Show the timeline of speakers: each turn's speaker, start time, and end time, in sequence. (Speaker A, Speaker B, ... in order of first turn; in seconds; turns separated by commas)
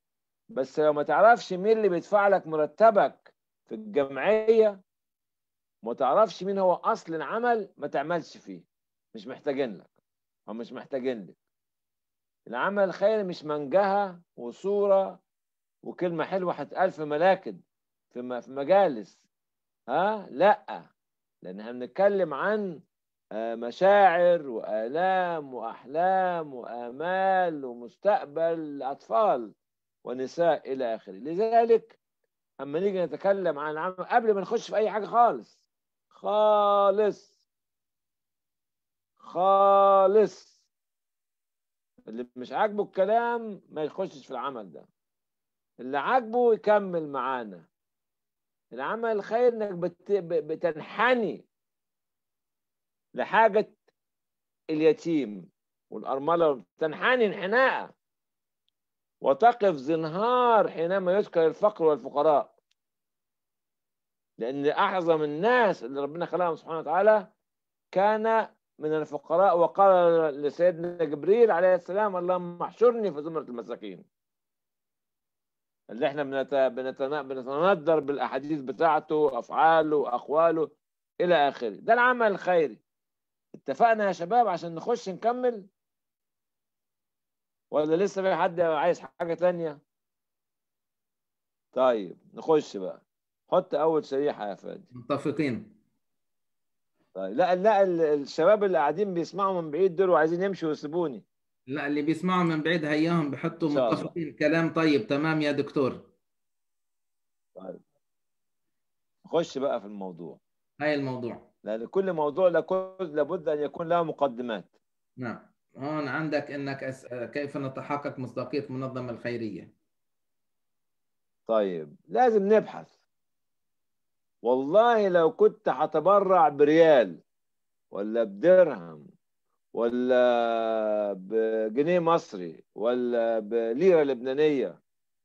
Speaker A: 0.5-4.8, Speaker A: 5.8-9.9, Speaker A: 10.5-11.3, Speaker A: 12.5-15.2, Speaker A: 15.8-17.6, Speaker A: 18.1-19.2, Speaker A: 19.9-20.9, Speaker A: 21.4-22.8, Speaker A: 23.4-29.5, Speaker A: 30.0-31.9, Speaker A: 32.6-35.5, Speaker A: 36.1-37.3, Speaker A: 39.2-40.5, Speaker A: 42.1-44.9, Speaker A: 45.8-47.6, Speaker A: 48.7-51.4, Speaker A: 53.1-53.7, Speaker A: 54.7-57.9, Speaker A: 59.2-62.5, Speaker A: 64.4-67.3, Speaker A: 67.9-74.0, Speaker A: 75.9-82.8, Speaker A: 83.5-85.7, Speaker A: 87.7-89.8, Speaker A: 91.7-94.9, Speaker B: 94.9-95.7, Speaker A: 97.1-101.2, Speaker B: 101.7-106.0, Speaker A: 103.7-104.1, Speaker A: 109.2-110.4, Speaker B: 110.8-111.4, Speaker A: 111.6-114.7, Speaker B: 115.2-119.7, Speaker A: 121.5-122.9, Speaker A: 124.4-127.2, Speaker A: 127.9-129.1, Speaker A: 129.7-134.8